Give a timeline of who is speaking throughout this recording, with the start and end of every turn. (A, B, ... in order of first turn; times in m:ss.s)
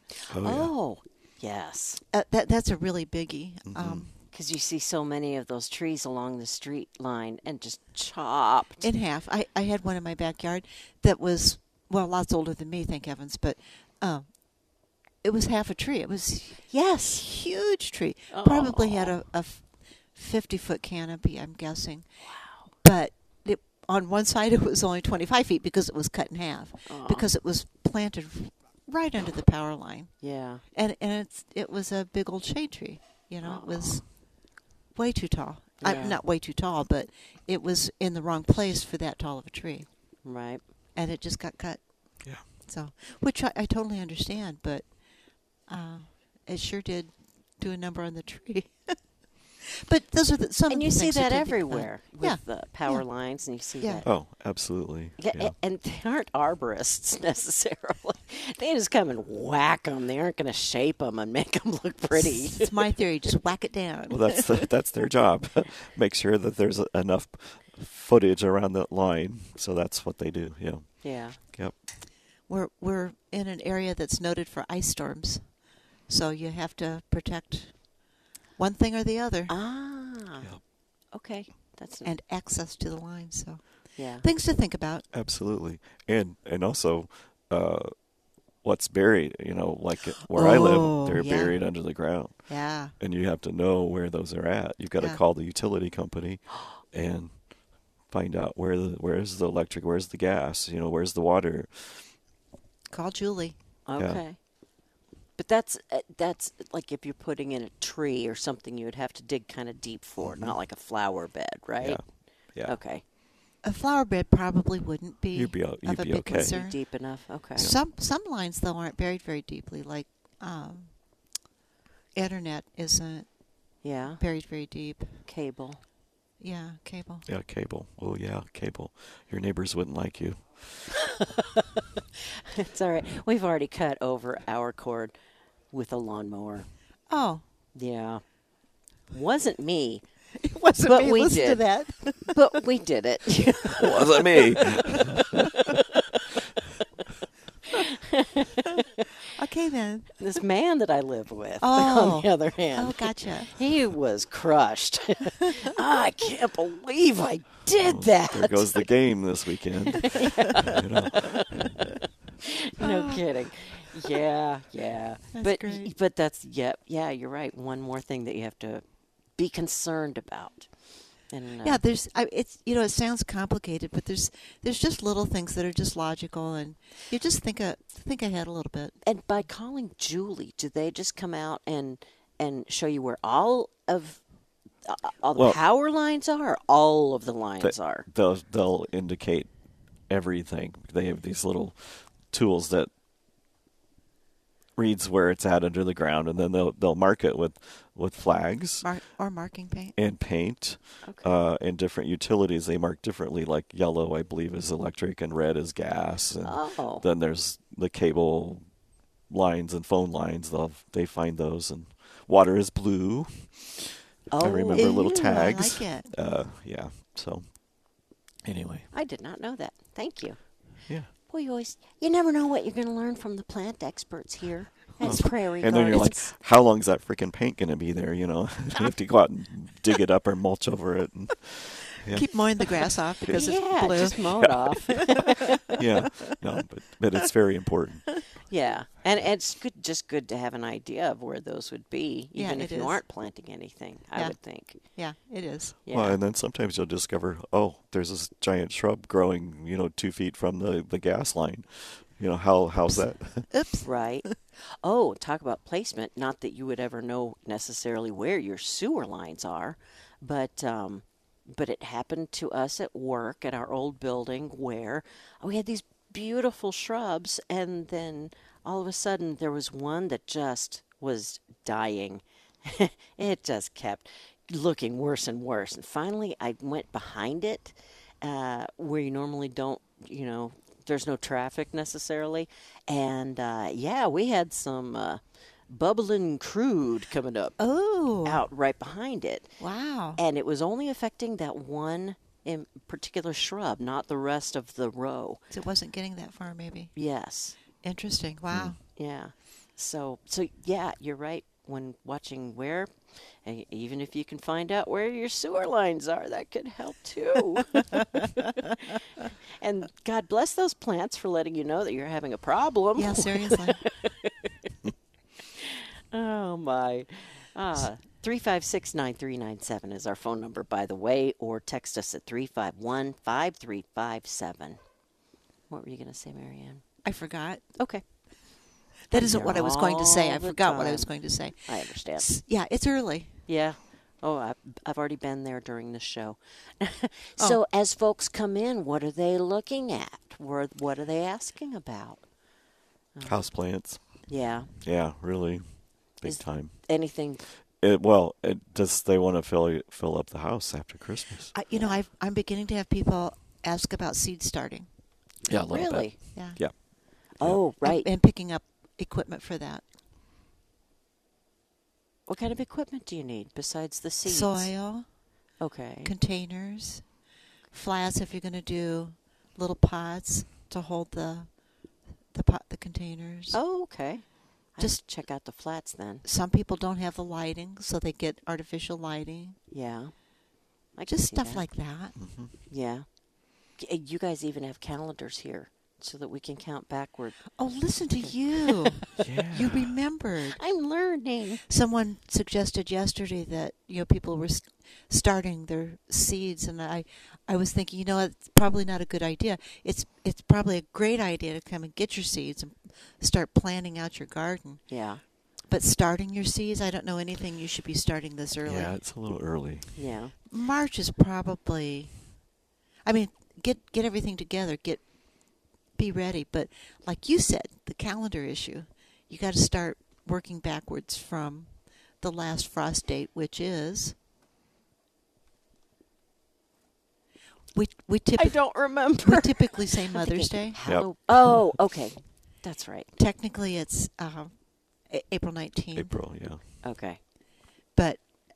0:00.2-0:02.0 A
0:00.3-0:00.7 B
0:02.1-0:04.1 C
0:03.7-0:04.1 B
0:04.3-0:08.9 A
0:08.8-0:14.3 C
0:15.2-0:19.6 C
0:16.7-0:17.2 A
0:18.3-0:19.2 A
0:20.2-0:22.0 C
0:22.2-0:22.6 A
0:22.8-0:30.2 C
0:26.9-0:27.3 A
0:30.2-0:30.6 A
0:30.7-0:34.1 C
0:33.4-0:34.0 A
0:35.0-0:39.9 C
0:35.8-0:36.2 A
0:40.2-0:40.6 A
0:41.0-0:41.8 C
0:42.6-0:44.8 C
0:45.7-0:49.0 C
0:49.6-0:53.0 C
0:50.7-0:54.1 A
0:53.8-0:54.1 C
0:54.0-0:55.5 B
0:55.2-1:02.8 A
1:02.2-1:04.7 C
1:04.1-1:11.7 B
1:11.0-1:11.4 A
1:12.5-1:15.5 C
1:16.1-1:17.9 C
1:18.6-1:19.5 C
1:19.5-1:20.5 A
1:21.1-1:22.1 A
1:22.0-1:25.1 C
1:24.0-1:24.2 A
1:25.1-1:27.9 B
1:28.6-1:37.4 B
1:30.3-1:31.6 C
1:32.5-1:32.9 C
1:38.1-1:42.1 B
1:42.9-1:43.6 C
1:43.9-1:44.4 A
1:44.0-1:44.2 B
1:45.4-1:52.0 A
1:50.2-1:50.6 B
1:52.6-1:53.0 A
1:53.6-1:56.8 C
1:55.3-1:56.6 B
1:56.3-1:57.7 A
1:57.4-2:00.9 C
2:02.2-2:03.3 C
2:03.8-2:04.2 A
2:04.1-2:05.2 C
2:05.3-2:05.8 A
2:06.4-2:07.3 C
2:07.3-2:10.9 B
2:11.0-2:15.2 A
2:15.7-2:16.7 A
2:17.1-2:17.4 C
2:17.8-2:18.2 A
2:19.1-2:20.0 A
2:20.4-2:22.6 C
2:20.8-2:21.6 A
2:22.2-2:26.0 A
2:23.8-2:25.5 B
2:24.6-2:24.9 C
2:27.7-2:29.1 A
2:29.4-2:30.2 C
2:30.2-2:38.9 A
2:31.6-2:33.5 C
2:37.8-2:41.7 B
2:40.0-2:41.7 A
2:42.4-2:48.8 A
2:42.8-2:43.2 C
2:45.3-2:45.9 C
2:49.4-2:50.7 A
2:51.3-2:51.8 A
2:51.6-2:59.0 C
2:59.0-3:04.2 A
3:04.8-3:08.1 A
3:07.6-3:09.5 B
3:10.1-3:12.9 B
3:14.8-3:18.9 B
3:18.8-3:20.0 C
3:20.0-3:28.7 B
3:21.0-3:21.3 A
3:26.4-3:27.0 A
3:29.3-3:37.5 B
3:34.3-3:35.3 A
3:34.7-3:36.1 C
3:38.4-3:38.9 B
3:38.9-3:40.6 A
3:41.2-3:46.3 A
3:45.0-3:52.3 B
3:52.1-3:54.6 C
3:53.3-3:54.7 B
3:53.3-3:55.8 A
3:55.8-3:58.2 B
3:58.5-4:04.8 A
4:02.4-4:03.0 C
4:04.2-4:05.8 C
4:05.9-4:06.2 A
4:05.9-4:13.5 B
4:13.5-4:14.3 C
4:13.8-4:47.6 A
4:47.6-4:48.5 C
4:48.2-4:49.5 A
4:49.6-4:50.2 C
4:50.2-4:55.4 A
4:55.5-4:56.9 C
4:57.0-4:57.6 A
4:57.8-4:58.8 C
4:58.5-4:58.8 B
4:59.0-5:09.0 A
5:09.6-5:14.5 A
5:13.0-5:13.8 C
5:15.6-5:24.8 A
5:25.7-5:26.8 A
5:27.0-5:27.6 C
5:27.8-5:28.0 A
5:29.1-5:33.4 C
5:29.1-5:32.3 A
5:33.5-5:42.3 A
5:43.2-5:43.5 A
5:43.2-5:44.3 B
5:44.2-5:44.7 A
5:44.8-5:46.8 B
5:46.2-5:47.4 A
5:47.8-5:51.5 B
5:51.5-5:54.9 C
5:51.7-5:52.0 A
5:55.5-5:56.8 B
5:55.7-5:56.2 A
5:56.3-5:56.6 C
5:57.4-5:58.1 A
5:57.8-5:59.8 C
6:02.3-6:04.7 A
6:04.2-6:05.1 C
6:05.6-6:06.1 A
6:06.0-6:07.0 C
6:07.7-6:11.5 C
6:12.3-6:13.6 C
6:13.5-6:16.2 A
6:16.2-6:19.6 C
6:19.7-6:20.2 A
6:20.9-6:21.7 A
6:21.1-6:22.2 C
6:22.2-6:22.5 B
6:22.7-6:23.1 A
6:23.7-6:27.4 A
6:27.6-6:30.6 C
6:28.2-6:28.9 A
6:29.2-6:30.0 B
6:30.6-6:31.6 A
6:31.7-6:49.0 C
6:44.9-6:45.2 A
6:48.6-6:49.9 B
6:50.0-6:50.3 A
6:50.5-6:52.2 C
6:53.0-6:55.0 C
6:56.0-7:04.2 C
7:07.7-7:10.8 C
7:08.4-7:13.1 A
7:10.8-7:11.7 B
7:13.2-7:14.5 C
7:15.0-7:16.2 C
7:16.0-7:16.6 B
7:16.8-7:17.2 A
7:18.0-7:18.2 C